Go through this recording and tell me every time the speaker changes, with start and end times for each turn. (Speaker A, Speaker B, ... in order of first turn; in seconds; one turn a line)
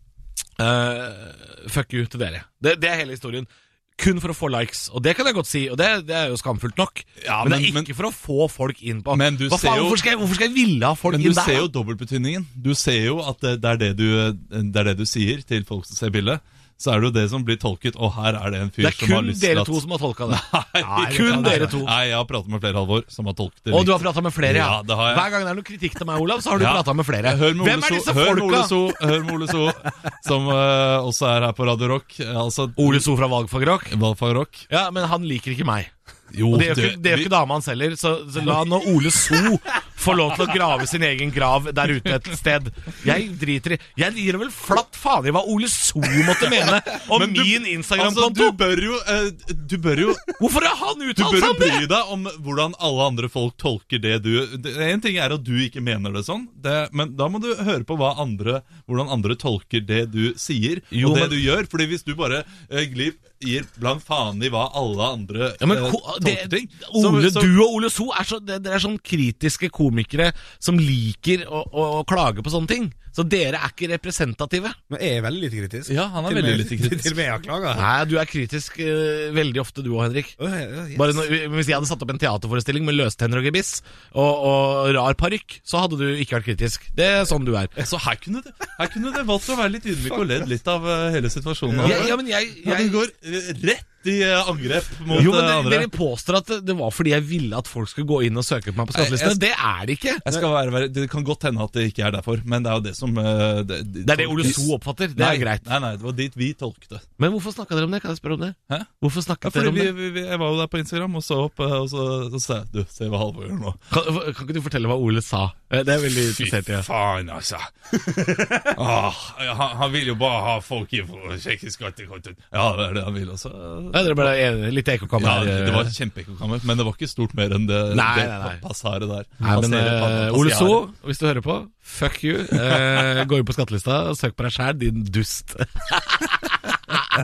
Speaker A: 0.6-11.7
Speaker B: 7.2-7.9
Speaker B: 9.1-10.0
Speaker B: 11.1-25.3
Speaker A: 18.8-21.9
Speaker C: 20.9-21.8
Speaker A: 23.7-28.9
Speaker B: 26.6-33.1
Speaker A: 32.8-33.9
Speaker B: 33.9-34.7
Speaker A: 34.7-35.9
Speaker B: 36.3-37.3
Speaker A: 36.5-48.6
Speaker B: 46.4-50.4
Speaker A: 50.4-51.9
Speaker B: 51.2-67.5
Speaker A: 60.9-61.4
Speaker A: 65.6-74.8
Speaker C: 74.9-77.9
Speaker B: 75.9-77.2
Speaker A: 77.7-80.4
Speaker C: 80.4-81.3
Speaker A: 81.0-87.8
Speaker B: 87.8-95.9
Speaker C: 91.7-92.1
Speaker A: 91.8-93.0
Speaker A: 95.1-100.2
Speaker B: 98.9-99.4
Speaker B: 100.2-107.0
Speaker A: 104.0-105.7
Speaker A: 107.2-109.9
Speaker B: 109.4-113.8
Speaker A: 113.9-116.9
Speaker B: 116.3-124.3
Speaker A: 123.9-125.9
Speaker B: 125.2-130.8
Speaker A: 127.9-128.6
Speaker A: 129.4-137.0